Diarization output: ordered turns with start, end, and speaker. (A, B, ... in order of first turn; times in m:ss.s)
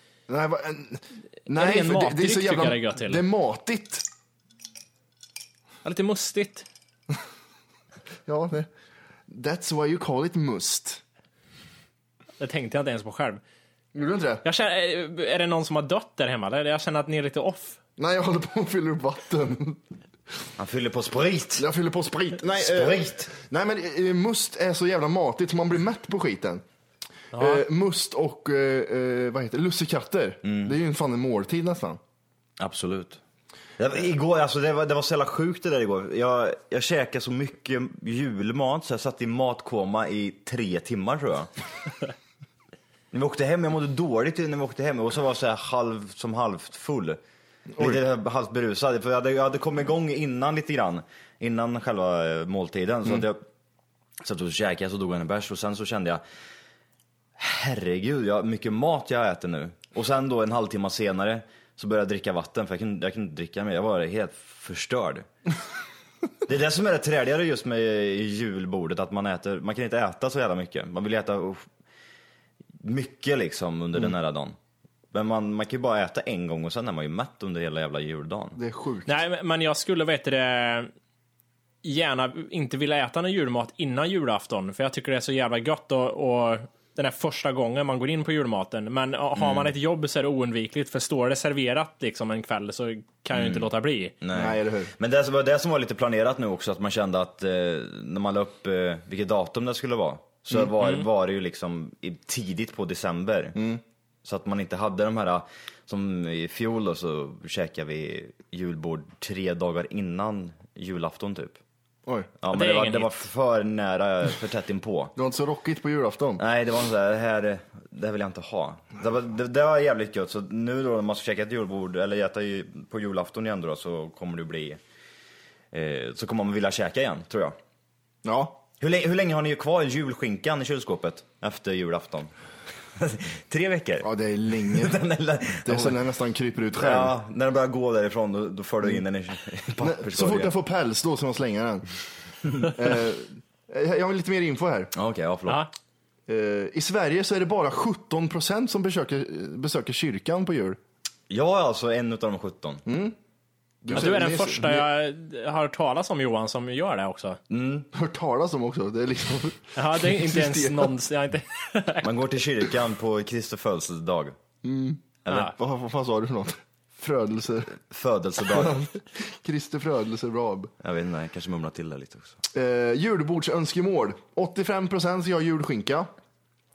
0:00.3-0:04.0 A
0:01.5-0:03.2 B
0:05.8-0:06.6 B
0:08.2-0:08.7 A
0:09.3-0:11.0 A
0:12.4-0:13.4 B
0:13.9-0:14.4 A
0:14.4-0:17.8 B
0:18.0-0:19.8 A
0:20.6-0:21.7 C
0:21.6-0:26.6 A
0:22.6-0:23.3 C
0:27.3-0:27.6 B
0:27.3-0:32.0 A
0:30.4-0:30.7 C
0:32.6-0:33.2 C
0:33.8-0:41.5 C
0:43.1-0:47.2 C
0:47.7-0:48.0 A
0:47.8-0:53.4 C
0:54.2-0:56.2 C
0:57.4-1:05.2 C
1:06.4-1:11.6 C
1:12.8-1:14.6 C
1:15.1-1:18.6 C
1:18.6-1:19.1 A
1:19.1-1:20.9 B
1:21.8-1:34.1 B
1:29.4-1:29.7 C
1:33.3-1:33.7 C
1:34.2-1:43.6 C
1:34.3-1:34.9 A
1:43.5-1:43.8 A
1:44.2-1:51.6 C
1:52.4-1:55.1 C
1:52.5-1:53.2 B
1:55.2-1:56.4 A
1:56.4-2:04.8 C
2:05.7-2:07.6 C
2:08.2-2:08.6 A
2:08.8-2:12.3 C
2:13.0-2:16.0 C
2:14.0-2:15.0 A
2:15.6-2:17.1 A
2:16.8-2:20.5 C
2:19.8-2:21.8 A
2:22.6-2:24.9 A
2:24.9-2:25.6 C
2:26.3-2:30.8 A
2:31.3-2:32.8 C
2:32.8-2:33.2 A
2:33.8-2:34.9 A
2:33.9-2:37.4 B
2:37.5-2:37.9 C
2:37.9-2:40.9 A
2:39.8-2:42.1 B
2:42.0-2:44.3 C
2:44.6-2:47.7 A
2:45.2-2:45.5 C
2:45.3-2:45.5 B
2:47.8-2:48.8 C
2:48.4-2:50.7 A
2:50.8-2:52.4 C
2:52.5-2:56.1 A